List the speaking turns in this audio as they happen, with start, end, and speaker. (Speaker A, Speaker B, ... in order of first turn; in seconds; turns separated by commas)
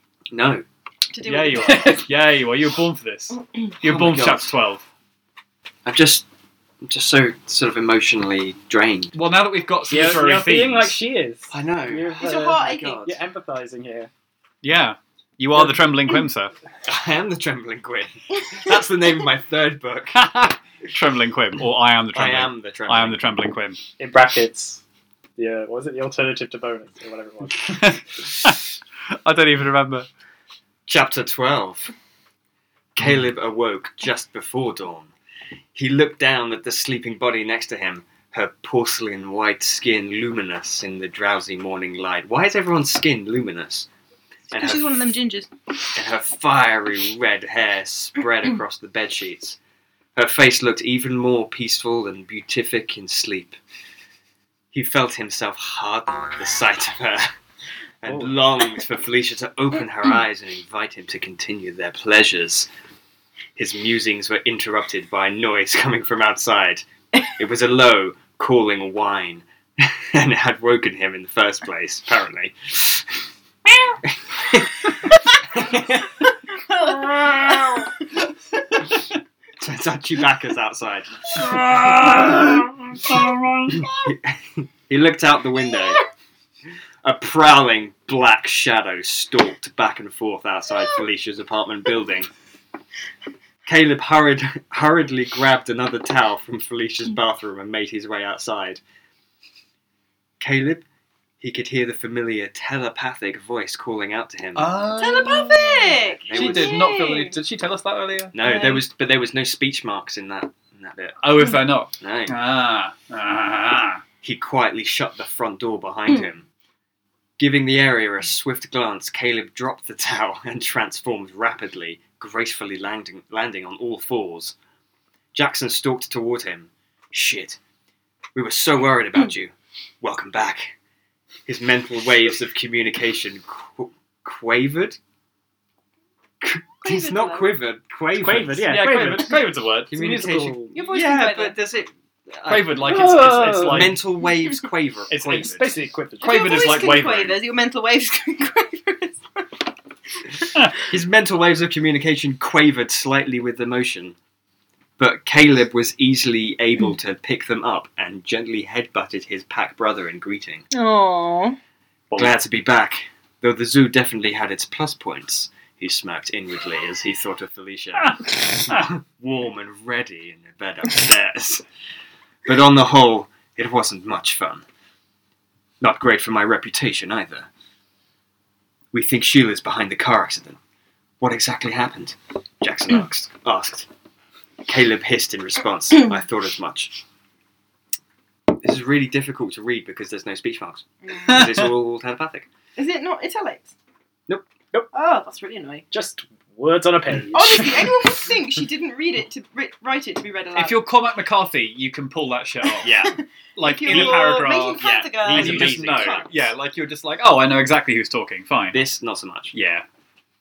Speaker A: 0.3-0.6, Speaker B: 1.1-2.0, Speaker C: 1.2-4.8, Speaker B: 3.4-3.7, Speaker A: 3.8-4.5, Speaker A: 5.8-6.3, Speaker A: 6.8-9.1, Speaker C: 9.1-11.0, Speaker D: 9.9-14.1, Speaker A: 11.5-13.2, Speaker B: 12.2-13.0, Speaker C: 14.6-16.6, Speaker A: 16.9-20.2, Speaker C: 20.1-23.8, Speaker A: 22.1-23.4, Speaker D: 24.0-24.8, Speaker D: 25.4-27.6, Speaker C: 27.6-28.6, Speaker C: 29.2-30.1, Speaker A: 30.9-31.9, Speaker A: 33.0-35.1, Speaker A: 35.8-43.9, Speaker A: 44.5-44.9, Speaker B: 44.6-45.5, Speaker A: 46.0-49.6, Speaker A: 50.2-53.6, Speaker A: 54.7-57.3, Speaker A: 58.0-62.7, Speaker D: 58.1-58.4, Speaker A: 63.6-73.2, Speaker A: 74.0-74.9, Speaker A: 75.5-76.3, Speaker B: 76.5-78.2, Speaker A: 79.6-81.5, Speaker C: 81.4-83.8, Speaker A: 83.7-86.0, Speaker A: 87.0-92.3, Speaker A: 93.7-98.8, Speaker A: 100.4-100.8, Speaker A: 101.4-104.7, Speaker C: 104.5-108.4, Speaker B: 105.0-107.4, Speaker A: 106.2-106.8, Speaker A: 108.3-111.2, Speaker B: 108.5-108.8, Speaker C: 111.2-114.0, Speaker A: 112.0-112.4, Speaker A: 114.2-116.5, Speaker A: 117.4-124.6, Speaker A: 125.3-127.6, Speaker A: 128.3-130.8, Speaker A: 131.5-135.0, Speaker A: 136.4-138.8, Speaker B: 136.8-137.5, Speaker D: 138.2-140.8, Speaker C: 138.7-139.9, Speaker A: 139.9-145.7, Speaker B: 140.7-141.6, Speaker C: 142.5-144.0, Speaker D: 142.8-143.9, Speaker C: 145.1-145.5, Speaker D: 145.3-146.4, Speaker C: 146.2-147.4, Speaker B: 146.2-149.6, Speaker A: 150.8-154.2, Speaker A: 155.0-160.7, Speaker B: 160.7-161.6, Speaker A: 162.2-171.6, Speaker A: 172.5-174.6, Speaker A: 175.8-177.5, Speaker A: 178.9-180.6, Speaker A: 181.2-183.9, Speaker A: 184.7-187.0, Speaker A: 188.6-192.5, Speaker B: 191.1-191.4, Speaker C: 191.3-191.7, Speaker B: 192.8-193.8, Speaker B: 194.9-195.9, Speaker D: 195.9-197.9, Speaker B: 197.3-200.8, Speaker C: 200.6-202.9, Speaker A: 202.8-203.2, Speaker B: 202.8-206.5, Speaker C: 203.6-208.8, Speaker A: 203.9-206.2, Speaker A: 208.7-209.6, Speaker C: 209.5-209.9